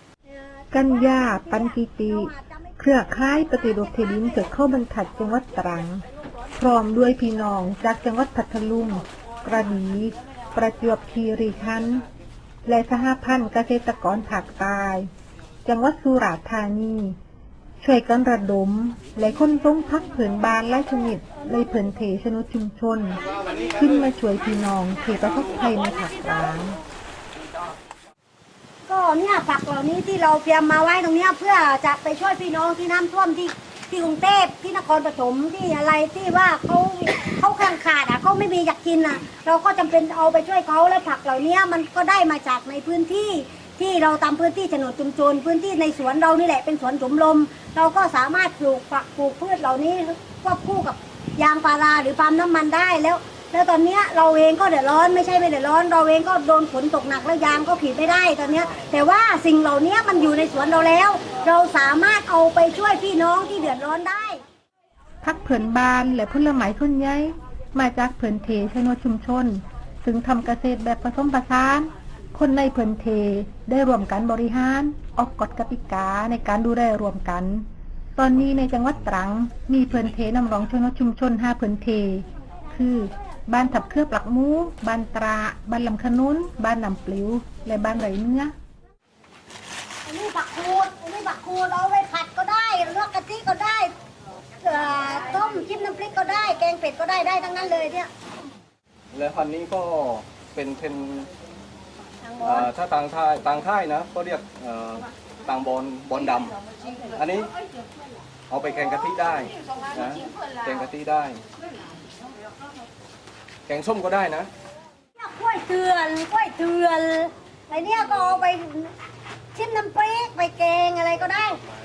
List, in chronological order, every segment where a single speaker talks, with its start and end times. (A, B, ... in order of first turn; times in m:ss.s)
0:00.3-0:04.4 A
0:00.7-0:06.0 B
0:06.6-0:12.0 B
0:12.6-0:15.1 B
0:15.6-0:17.2 B
0:17.8-0:26.8 B
0:28.9-1:04.4 A
1:05.2-1:28.5 B
1:30.1-1:33.9 A
1:34.6-1:38.1 A
1:39.1-1:41.3 C
1:42.4-1:46.6 C
1:47.2-1:47.5 C
1:48.5-1:51.4 C
1:53.7-1:54.5 C
1:55.2-1:58.9 A
1:59.6-2:01.6 A